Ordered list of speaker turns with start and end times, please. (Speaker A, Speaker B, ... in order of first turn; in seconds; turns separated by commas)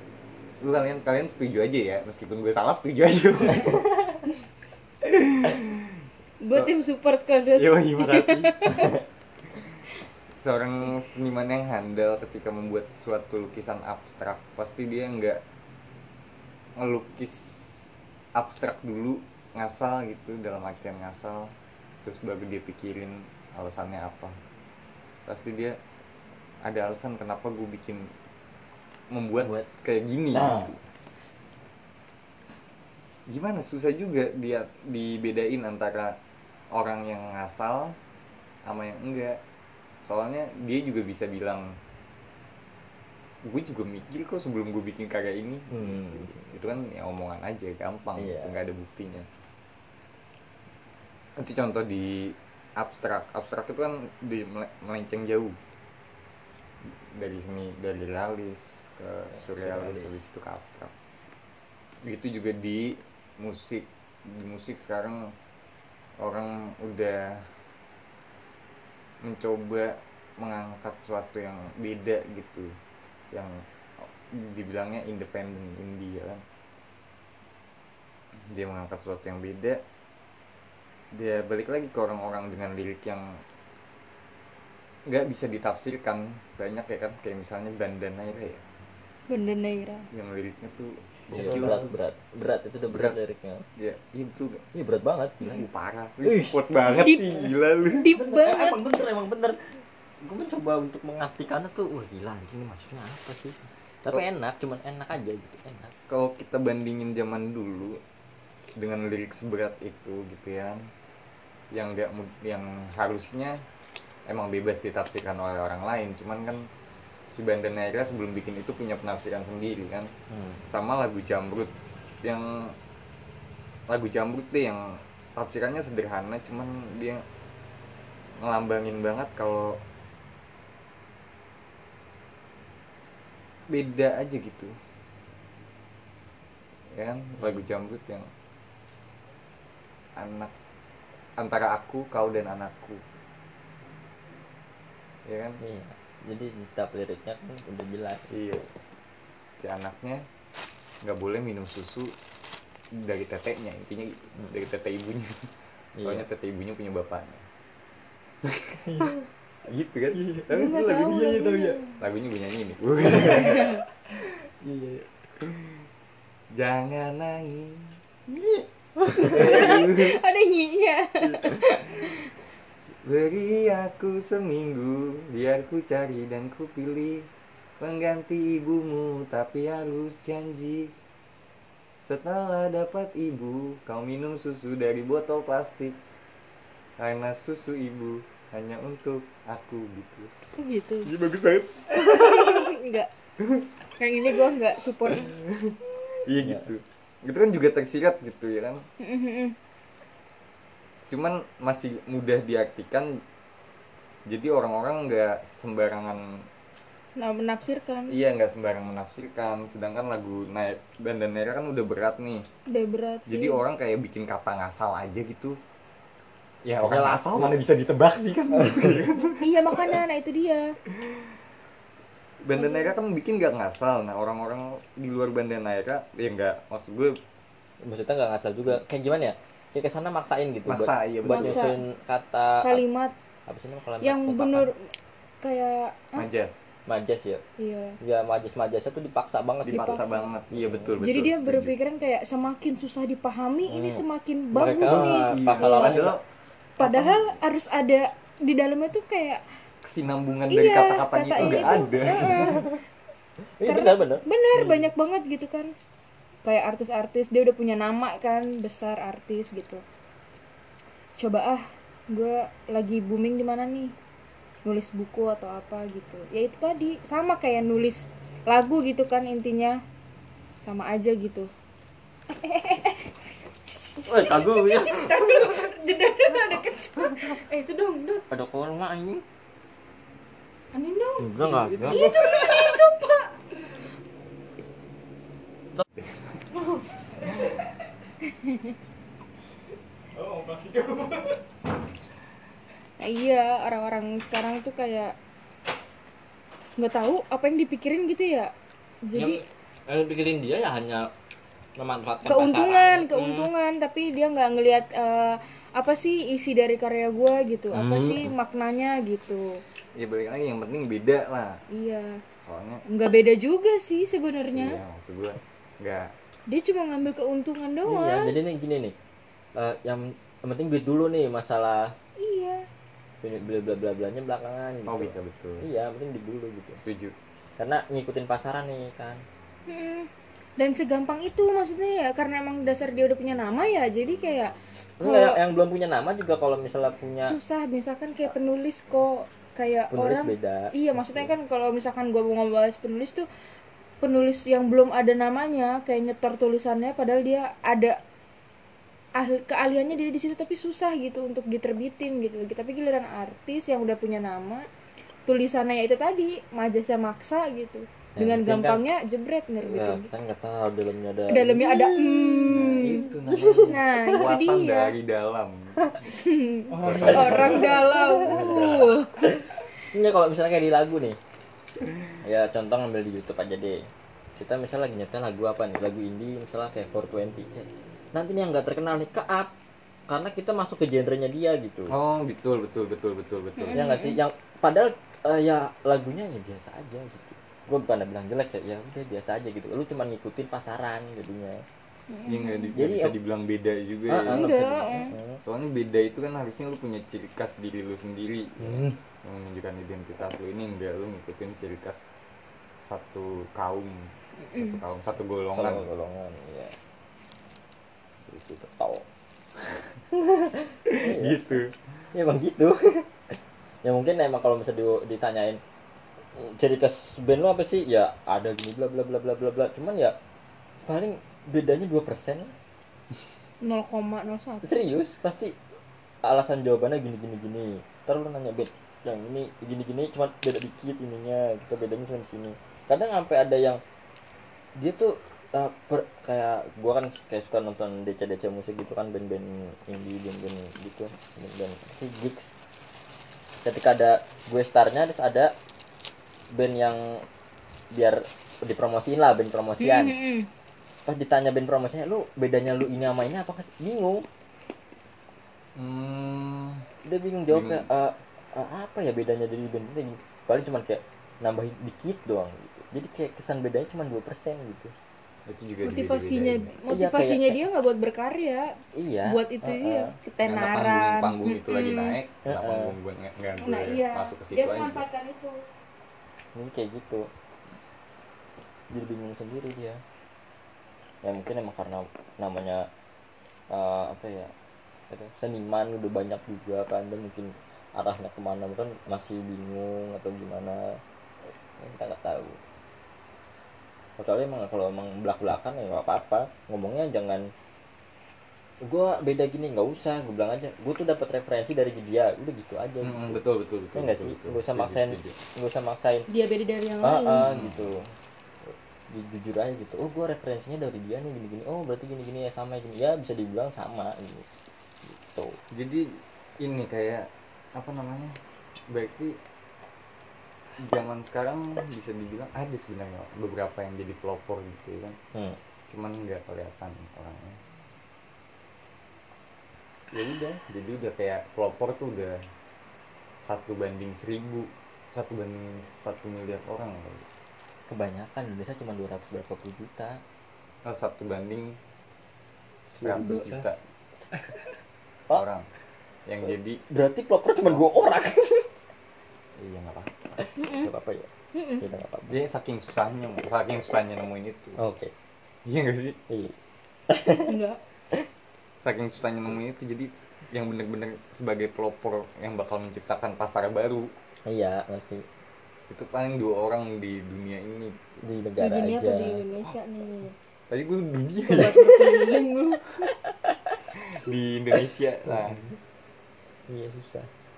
Speaker A: 0.6-3.9, Speaker A: 5.0-6.0, Speaker B: 6.4-9.0, Speaker A: 7.5-8.8, Speaker A: 10.4-15.4, Speaker A: 16.8-17.8, Speaker A: 18.4-21.5, Speaker A: 22.0-24.4, Speaker A: 25.3-25.8, Speaker A: 26.6-28.1, Speaker A: 29.1-30.8, Speaker C: 29.4-29.7, Speaker C: 30.3-30.8, Speaker A: 33.3-36.2, Speaker A: 36.7-38.0, Speaker A: 38.7-39.4, Speaker A: 40.0-41.7, Speaker A: 43.4-49.3, Speaker C: 45.7-46.5, Speaker C: 48.2-48.6, Speaker A: 51.4-55.6, Speaker A: 56.9-60.9, Speaker C: 59.4-60.2, Speaker A: 62.0-65.3, Speaker A: 66.2-67.5, Speaker A: 69.2-72.7, Speaker A: 73.3-76.4, Speaker A: 78.5-79.8, Speaker A: 81.1-83.4, Speaker A: 85.1-88.6, Speaker B: 89.3-90.1, Speaker A: 90.1-92.0, Speaker C: 91.3-93.7, Speaker A: 92.9-93.2, Speaker A: 93.8-94.7, Speaker C: 94.7-95.7, Speaker A: 95.4-98.1, Speaker C: 96.2-97.1, Speaker B: 97.0-98.8, Speaker C: 98.1-105.9, Speaker A: 106.1-108.0, Speaker A: 108.8-110.9, Speaker A: 111.7-113.6, Speaker A: 114.3-116.7, Speaker A: 117.3-120.1, Speaker C: 120.3-120.6, Speaker A: 120.7-122.8, Speaker A: 123.9-127.2, Speaker A: 128.4-129.8, Speaker A: 133.7-134.8, Speaker A: 136.9-138.3, Speaker A: 140.2-140.5, Speaker A: 141.4-143.0, Speaker A: 145.2-145.6, Speaker C: 145.6-148.3, Speaker A: 148.3-148.7, Speaker A: 149.6-150.2, Speaker A: 151.0-152.2, Speaker A: 152.9-155.5, Speaker C: 156.0-156.2, Speaker A: 156.0-157.4, Speaker A: 158.4-159.1, Speaker D: 158.9-159.2, Speaker A: 159.7-163.8, Speaker D: 160.1-160.5, Speaker B: 160.5-162.0, Speaker B: 163.4-163.8, Speaker D: 164.6-165.1, Speaker A: 165.4-165.8, Speaker A: 166.5-170.2, Speaker B: 169.1-172.3, Speaker A: 171.2-171.9, Speaker A: 173.0-180.9, Speaker A: 182.1-186.0, Speaker A: 187.0-190.3, Speaker B: 190.6-191.1, Speaker A: 191.1-192.6, Speaker B: 191.9-193.1, Speaker A: 193.4-193.7, Speaker B: 194.0-195.3, Speaker A: 195.2-198.9, Speaker B: 199.0-199.6, Speaker A: 201.1-203.2, Speaker A: 204.3-206.5, Speaker B: 207.2-208.2, Speaker A: 208.1-212.5, Speaker B: 212.7-213.6, Speaker A: 213.3-215.6, Speaker A: 216.6-220.0, Speaker C: 216.8-217.6, Speaker B: 219.4-220.7, Speaker A: 220.9-221.3, Speaker A: 222.4-227.2, Speaker B: 222.5-222.9, Speaker C: 227.8-232.8, Speaker A: 230.7-231.7, Speaker B: 231.3-231.8, Speaker B: 232.6-233.1, Speaker C: 233.5-234.7, Speaker B: 234.0-234.9, Speaker B: 235.4-236.3, Speaker A: 236.2-236.6, Speaker C: 236.9-237.4, Speaker B: 237.6-238.0, Speaker C: 238.0-240.9, Speaker B: 239.7-240.3, Speaker A: 239.7-241.8, Speaker B: 241.0-246.1, Speaker C: 243.7-246.2, Speaker A: 244.8-246.2, Speaker B: 246.8-249.4, Speaker A: 246.8-247.3, Speaker A: 249.8-252.7, Speaker B: 250.5-252.8, Speaker C: 251.4-251.7, Speaker C: 252.3-252.7, Speaker C: 253.6-254.2, Speaker B: 253.7-255.7, Speaker D: 254.6-254.9, Speaker B: 256.4-259.8, Speaker B: 261.2-263.9, Speaker B: 264.6-269.8, Speaker B: 270.6-271.5, Speaker B: 272.3-273.1, Speaker B: 273.7-278.3, Speaker C: 274.1-275.6, Speaker C: 278.3-279.2, Speaker B: 280.7-283.3, Speaker C: 281.2-282.1, Speaker D: 281.4-282.7, Speaker A: 286.0-286.3, Speaker B: 288.2-288.8, Speaker D: 290.1-291.4, Speaker B: 293.0-295.1, Speaker B: 296.8-298.5, Speaker B: 299.0-299.4, Speaker C: 299.1-301.1, Speaker C: 301.8-303.5, Speaker B: 302.2-309.6, Speaker C: 307.7-308.3, Speaker A: 310.0-311.6, Speaker B: 311.7-312.2, Speaker A: 312.4-312.8, Speaker B: 312.9-314.8, Speaker A: 314.5-316.1, Speaker B: 316.5-318.3, Speaker C: 317.9-318.9, Speaker C: 319.6-321.9, Speaker B: 322.2-322.7, Speaker C: 323.2-326.8, Speaker A: 324.9-325.6, Speaker A: 326.8-327.2, Speaker C: 327.6-329.2, Speaker B: 329.7-335.4, Speaker C: 335.0-337.4, Speaker B: 337.2-343.3, Speaker C: 339.9-341.3, Speaker B: 344.0-348.0, Speaker B: 349.2-354.7, Speaker B: 355.3-360.1, Speaker C: 358.2-358.8, Speaker C: 359.6-363.0, Speaker B: 361.3-364.9, Speaker A: 362.5-365.8, Speaker B: 366.1-369.2, Speaker D: 366.7-368.0, Speaker A: 366.8-369.0, Speaker C: 366.8-368.7, Speaker C: 369.3-371.2, Speaker C: 372.2-379.5, Speaker C: 380.1-382.0, Speaker A: 381.9-383.9, Speaker B: 383.6-384.2, Speaker C: 383.7-391.6, Speaker B: 392.1-392.7, Speaker A: 392.3-394.5, Speaker C: 392.8-393.1, Speaker C: 394.1-395.4, Speaker B: 394.3-395.1, Speaker A: 395.4-402.1, Speaker C: 398.6-399.0, Speaker A: 402.8-405.9, Speaker B: 404.4-404.8, Speaker C: 405.5-406.8, Speaker C: 408.3-409.1, Speaker C: 410.1-411.6, Speaker A: 410.9-411.7, Speaker C: 412.1-415.6, Speaker C: 416.4-420.2, Speaker C: 420.9-422.5, Speaker B: 423.6-424.7, Speaker C: 424.6-425.6, Speaker C: 426.2-433.8, Speaker C: 434.8-442.5, Speaker C: 443.6-445.6, Speaker C: 446.5-447.2, Speaker C: 447.9-450.2, Speaker B: 449.8-450.5, Speaker C: 451.1-454.3, Speaker A: 455.8-456.8, Speaker C: 457.0-464.9, Speaker A: 457.5-457.9, Speaker A: 465.5-466.7, Speaker B: 465.8-472.2, Speaker C: 466.9-467.6, Speaker C: 468.9-470.2, Speaker A: 470.4-475.1, Speaker C: 472.5-473.0, Speaker B: 473.6-475.6, Speaker C: 476.6-477.3, Speaker C: 478.9-480.0, Speaker C: 481.2-482.9, Speaker C: 483.7-484.5, Speaker C: 485.1-492.6, Speaker C: 494.2-497.5, Speaker C: 498.8-503.4, Speaker A: 503.0-505.4, Speaker C: 503.9-506.3, Speaker B: 506.3-507.5, Speaker C: 507.0-508.1, Speaker A: 507.4-507.9, Speaker C: 508.7-514.5, Speaker C: 515.1-515.6, Speaker A: 515.7-518.4, Speaker A: 518.9-519.4, Speaker A: 520.8-525.2, Speaker A: 525.9-527.6, Speaker A: 530.1-532.4, Speaker A: 533.4-537.3, Speaker C: 537.9-540.2, Speaker A: 540.8-541.8, Speaker A: 542.9-543.8, Speaker C: 543.0-543.5, Speaker B: 543.2-543.4, Speaker D: 543.2-543.7, Speaker D: 544.3-544.6, Speaker A: 545.3-545.7, Speaker A: 546.3-546.8, Speaker C: 546.9-548.7, Speaker A: 549.6-550.4, Speaker C: 550.4-551.3, Speaker B: 550.6-550.9, Speaker B: 551.5-551.8, Speaker C: 551.8-552.4, Speaker A: 552.3-554.8, Speaker C: 554.8-555.1, Speaker A: 555.6-556.2, Speaker C: 556.3-556.6, Speaker C: 557.1-557.5, Speaker B: 557.5-557.8, Speaker A: 558.8-564.1, Speaker C: 564.5-565.3, Speaker A: 565.9-568.0, Speaker C: 568.2-569.4, Speaker B: 568.6-570.3, Speaker A: 570.7-572.3, Speaker B: 571.4-573.0, Speaker C: 573.1-573.8, Speaker A: 574.0-575.7, Speaker C: 575.3-575.7, Speaker C: 576.7-577.3